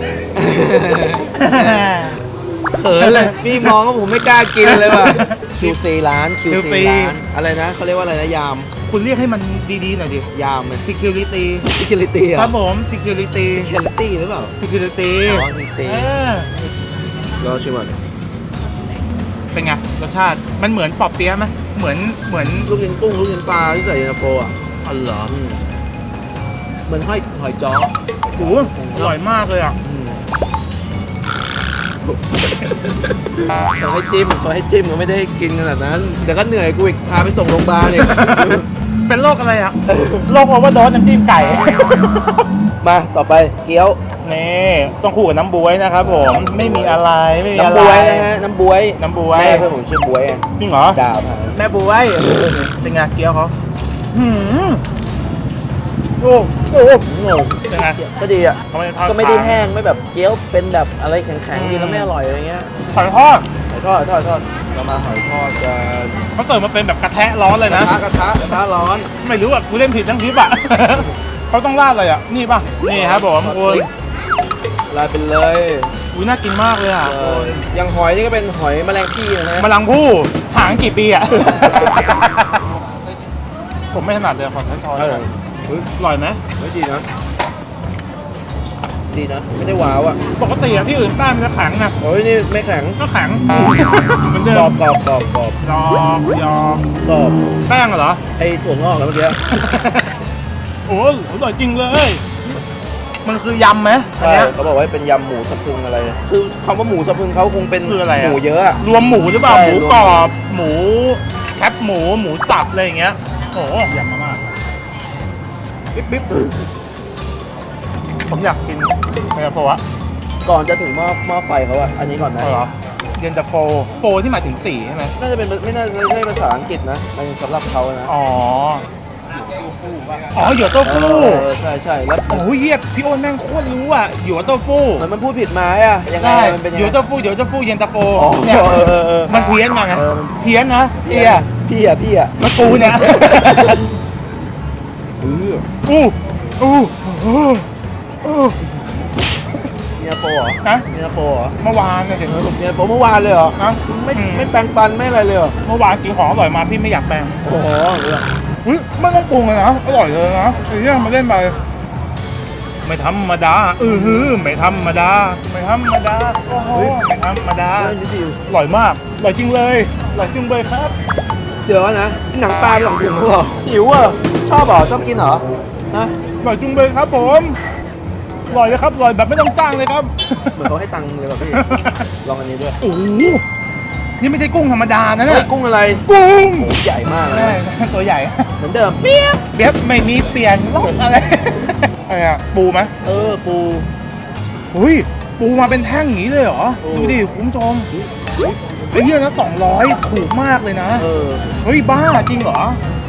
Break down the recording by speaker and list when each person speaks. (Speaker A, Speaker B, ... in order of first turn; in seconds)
Speaker A: 0.3-8.7, 10.3-10.8, 11.7-12.5, 13.4-14.5, 15.2-16.1, 17.4-17.9, 22.6-24.6, 25.3-25.6, 26.9-29.1, 29.8-30.2, 32.0-38.7, 39.9-40.3, 42.8-44.0, 46.0-47.0, 47.5-51.6, 52.2-52.5, 57.0-62.7, 63.7-66.2, 67.6-69.1, 72.8-73.9, 74.9-76.0, 77.0-79.7, 85.0-85.9, 86.6-87.1, 89.1-90.2, 92.0-93.0, 94.5-95.6, 97.0-97.4, 98.3-99.5, 104.2-108.8, 109.4-110.3, 115.9-116.6, 120.4-122.6, 125.1-128.1, 129.4-129.8, 130.8-132.4, 135.0-137.0, 138.1-139.3, 139.9-140.4, 141.0-143.8, 145.2-145.7, 149.9-151.6, 152.3-155.6, 157.4-158.3, 163.8-164.3, 166.7-167.0, 167.8-168.4, 171.7-176.1, 180.5-181.7, 182.2-182.8, 185.2-187.6, 188.6-189.4, 193.0-193.9, 196.8-197.3, 197.9-198.7, 201.0-201.5
Speaker B: 1.4-2.2, 2.9-3.8, 4.6-5.8, 6.5-7.2, 8.8-10.3, 10.8-11.7, 12.3-13.8, 14.6-16.5, 19.5-22.7, 24.8-25.3, 28.4-29.8, 37.8-42.2, 44.2-48.3, 49.0-49.7, 50.6-51.0, 51.5-53.5, 54.1-54.8, 56.2-57.0, 57.7-58.0, 58.7-59.7, 61.5-62.1, 62.9-63.5, 66.3-68.0, 69.2-73.9, 76.1-77.6, 79.5-82.7, 83.9-85.3, 85.9-86.4, 90.3-91.9, 93.0-94.7, 95.6-96.9, 97.7-98.2, 99.5-100.1, 100.9-102.4, 103.2-104.5, 107.8-114.4, 118.3-119.8, 122.4-125.1, 128.1-128.8, 130.2-131.5, 132.3-135.1, 136.2-141.4, 142.4-143.8, 145.8-147.7, 148.2-148.6, 151.6-152.5, 153.6-154.5, 155.6-157.3, 158.6-161.6, 162.8-170.9, 176.4-177.6, 178.5-180.6, 181.4-182.1, 182.8-183.4, 184.2-185.5, 186.1-188.5, 189.5-192.9, 194.7-197.9, 198.9-201.1, 201.6-202.8